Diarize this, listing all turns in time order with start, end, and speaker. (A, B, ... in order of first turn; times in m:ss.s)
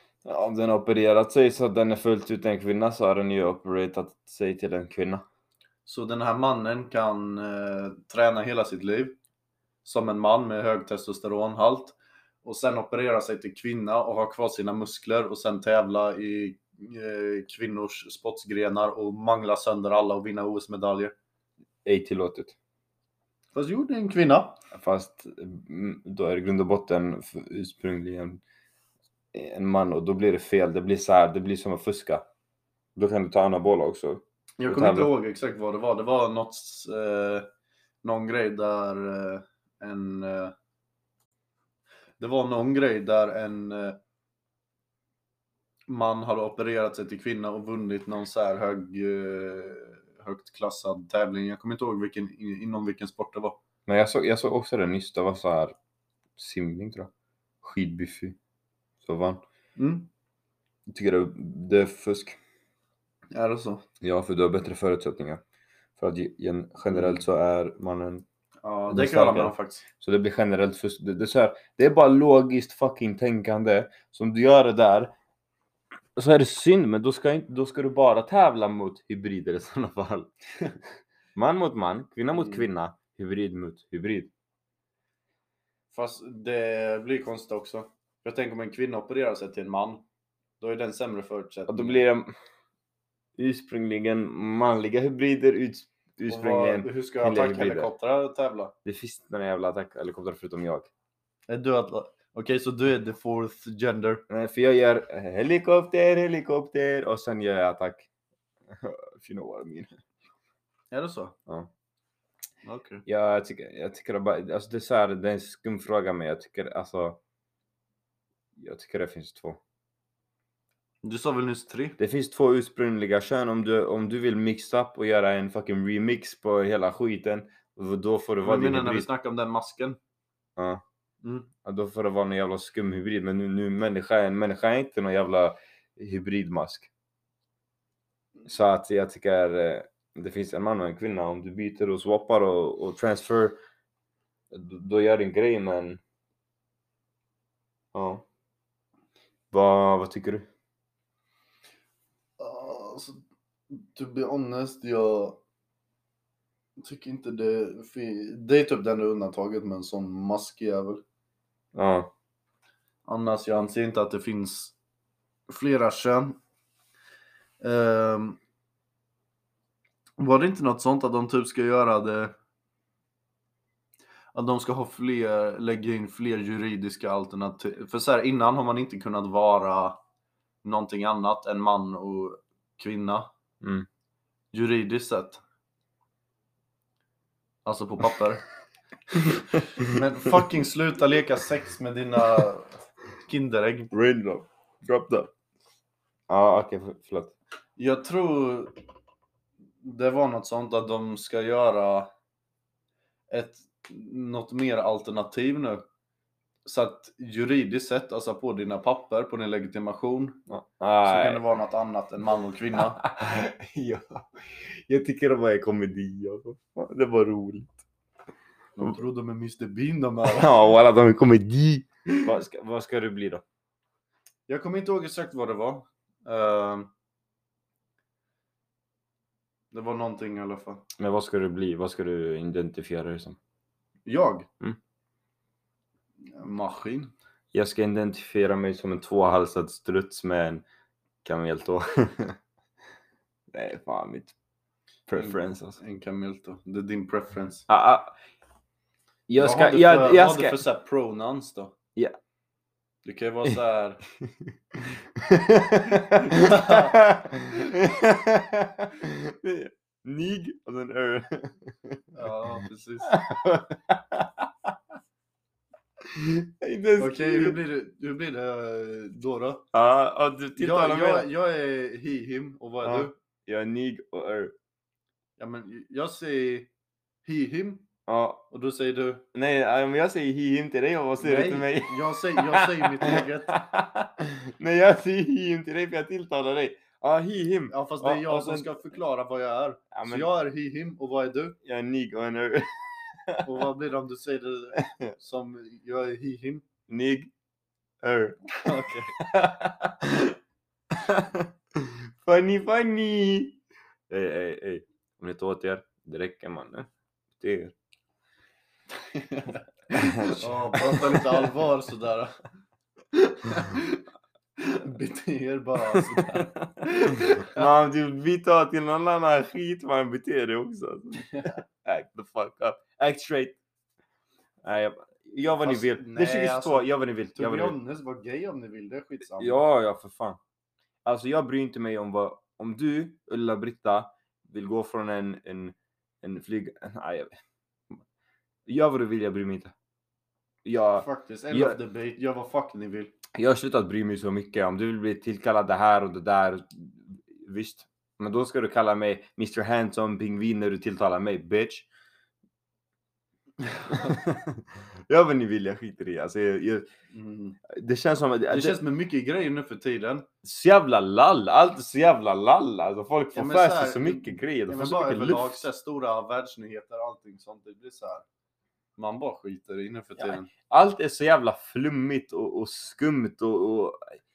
0:00.2-0:05.2 A
0:05.9-0:09.2 B
0:09.8-0:21.2 B
0:21.8-0:22.6 A
0:23.6-0:24.6 B
0:24.7-0:28.4 A
0:29.3-0:32.2 A
0:33.0-0:35.1 A
0:34.6-0:37.5 B
0:38.0-0:40.5 B
0:42.2-0:44.0 B
0:45.9-0:53.6 B
0:53.9-0:55.8 A
0:56.4-0:57.1 A
0:57.6-0:58.4 A
0:59.0-0:59.4 A
0:59.8-1:00.1 B
1:00.9-1:02.4 A
1:03.3-1:03.8 B
1:04.0-1:05.4 A
1:06.0-1:08.2 A
1:06.9-1:07.2 B
1:08.6-1:09.8 B
1:08.9-1:15.1 A
1:16.2-1:20.3 A
1:21.4-1:24.3 A
1:22.4-1:22.7 B
1:25.9-1:30.0 B
1:30.6-1:32.0 B
1:31.7-1:32.3 A
1:33.4-1:37.9 A
1:36.3-1:38.7 B
1:38.8-1:40.9 A
1:41.5-1:44.2 B
1:44.3-1:48.1 A
1:48.7-1:50.0 A
1:50.9-1:51.4 B
1:52.6-1:53.0 B
1:53.1-1:57.2 A
1:58.6-1:59.6 A
2:01.0-2:02.0 B
2:02.0-2:09.1 A
2:08.4-2:10.0 B
2:10.6-2:10.8 A
2:11.2-2:11.5 B
2:11.6-2:16.9 A
2:18.5-2:23.6 A
2:24.5-2:26.0 A
2:27.9-2:28.2 A
2:29.5-2:30.5 A
2:32.4-2:35.4 B
2:36.8-2:41.0 B
2:41.8-2:42.1 A
2:43.1-2:44.7 B
2:45.5-2:46.4 B
2:47.6-2:48.4 B
2:50.2-2:52.3 B
2:54.3-3:00.0 B
3:00.6-3:03.3 B
3:03.6-3:03.9 A
3:04.5-3:05.4 B
3:07.6-3:08.4 B
3:09.2-3:13.9 B
3:13.9-3:15.3 A
3:16.3-3:17.3 A
3:17.8-3:18.8 B
3:19.8-3:22.1 B
3:23.3-3:25.8 B
3:26.6-3:30.4 B
3:30.5-3:31.4 A
3:31.0-3:33.0 B
3:32.8-3:37.8 A
3:38.8-3:40.5 B
3:40.3-3:43.4 A
3:44.5-3:46.9 B
3:49.7-3:50.8 B
3:51.0-3:53.4 A
3:54.1-3:54.5 B
3:56.2-3:57.1 B
3:57.5-4:00.6 A
4:01.2-4:02.4 A
4:03.5-4:04.3 A
4:05.1-4:05.8 A
4:05.2-4:07.7 B
4:07.7-4:08.2 A
4:09.3-4:10.6 A
4:09.4-4:11.7 B
4:13.0-4:14.0 B
4:14.2-4:14.5 A
4:15.1-4:22.1 A
4:15.9-4:17.0 B
4:22.1-4:23.1 B
4:23.0-4:24.7 A
4:26.0-4:27.6 A
4:27.0-4:29.6 B
4:29.7-4:31.3 A
4:30.6-4:33.1 B
4:32.8-4:34.5 A
4:35.4-4:36.7 B
4:37.2-4:37.9 B
4:38.1-4:38.5 A
4:38.5-4:39.2 B
4:39.3-4:48.7 A
4:41.2-4:43.6 B
4:47.7-4:51.6 B
4:49.9-4:50.3 A
4:51.6-4:53.5 A
4:53.4-4:56.6 B
4:54.8-4:55.2 A
4:56.9-4:57.3 A
4:58.0-4:58.6 A
4:58.6-4:59.1 B
4:59.2-5:00.4 A
5:00.9-5:03.6 A
5:04.1-5:07.7 A
5:09.0-5:12.4 B
5:09.9-5:11.5 A
5:13.1-5:14.0 B
5:14.6-5:17.7 B
5:15.9-5:23.6 A
5:21.2-5:21.6 B
5:24.6-5:27.8 A
5:25.6-5:29.6 B
5:29.4-5:30.4 A
5:31.0-5:37.3 A
5:38.7-5:39.7 A
5:40.6-5:41.8 A
5:41.0-5:43.1 B
5:43.3-5:51.9 A
5:53.6-5:54.1 B
5:53.9-5:56.9 A
5:57.1-5:57.6 B
5:57.7-5:58.8 A
5:58.5-6:00.3 B
6:00.4-6:05.7 A
6:03.4-6:08.2 B
6:09.0-6:10.5 B
6:10.2-6:14.2 A